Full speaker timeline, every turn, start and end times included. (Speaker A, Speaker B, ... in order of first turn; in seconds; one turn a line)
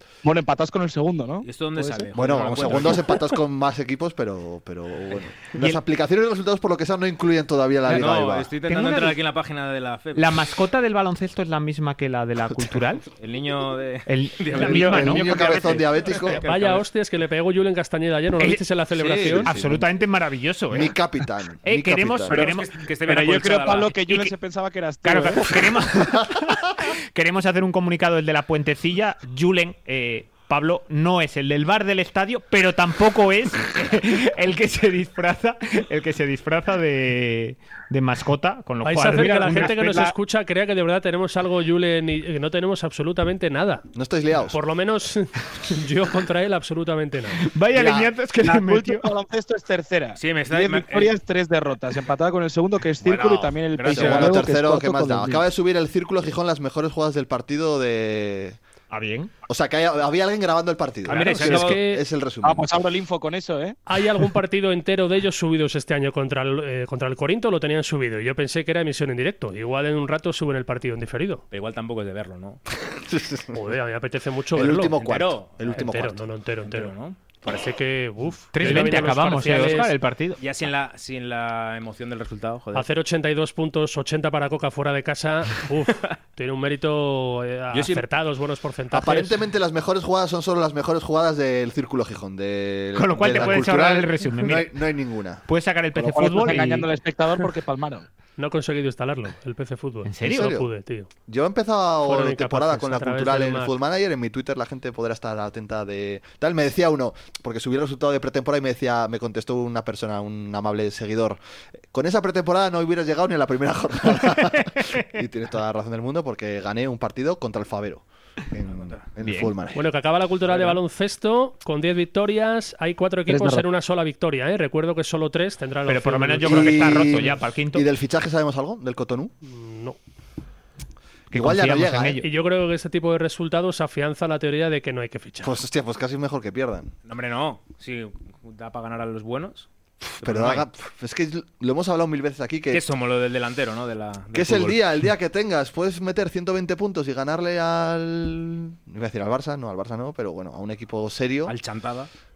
Speaker A: 0.2-2.1
Speaker B: 1.4-3.1
Speaker C: 2.1-8.5
Speaker B: 7.9-10.4
Speaker D: 8.7-9.2
Speaker D: 10.1-13.0
Speaker B: 13.2-16.9
Speaker D: 14.1-16.4
Speaker A: 14.5-15.8
Speaker C: 14.6-16.4
Speaker E: 16.4-19.5
Speaker B: 18.9-19.5
Speaker C: 19.3-19.9
Speaker D: 19.4-20.9
Speaker C: 20.7-22.5
Speaker D: 21.6-22.8
Speaker B: 22.3-23.9
Speaker A: 22.3-25.6
Speaker D: 25.0-40.1
Speaker E: 38.8-43.9
Speaker A: 39.5-39.8
Speaker C: 43.9-44.6
Speaker E: 44.5-47.4
Speaker D: 47.4-49.1
Speaker C: 47.7-48.1
Speaker A: 48.4-55.4
Speaker B: 50.2-51.1
Speaker B: 53.0-54.4
Speaker C: 53.9-58.6
Speaker D: 58.9-59.3
Speaker C: 59.5-62.6
Speaker B: 61.0-61.8
Speaker E: 61.1-62.0
Speaker A: 62.4-63.8
Speaker E: 63.9-71.4
Speaker B: 71.5-72.6
Speaker C: 72.9-73.7
Speaker E: 73.5-75.0
Speaker C: 74.5-76.2
Speaker B: 75.0-75.9
Speaker E: 75.7-76.9
Speaker B: 76.7-77.2
Speaker E: 77.4-79.9
Speaker D: 78.5-80.4
Speaker B: 78.6-79.8
Speaker B: 80.4-82.9
Speaker E: 82.7-89.4
Speaker B: 87.7-88.0
Speaker C: 88.9-95.4
Speaker D: 92.9-94.7
Speaker D: 95.5-96.9
Speaker A: 95.9-98.1
Speaker E: 98.4-101.1
Speaker D: 100.0-100.5
Speaker C: 100.2-100.7
Speaker C: 101.3-111.4
Speaker E: 102.0-103.7
Speaker C: 111.9-119.8
Speaker D: 114.4-115.0
Speaker B: 118.7-119.0
Speaker D: 119.2-119.5
Speaker E: 119.7-127.1
Speaker A: 123.3-123.6
Speaker D: 125.9-127.8
Speaker C: 126.4-129.3
Speaker E: 129.4-130.0
Speaker D: 131.3-132.2
Speaker C: 131.3-132.2
Speaker E: 132.2-135.5
Speaker C: 135.4-136.9
Speaker B: 137.1-139.7
Speaker B: 140.2-140.7
Speaker C: 140.2-142.8
Speaker B: 142.7-144.8
Speaker C: 144.3-151.5
Speaker B: 151.4-152.1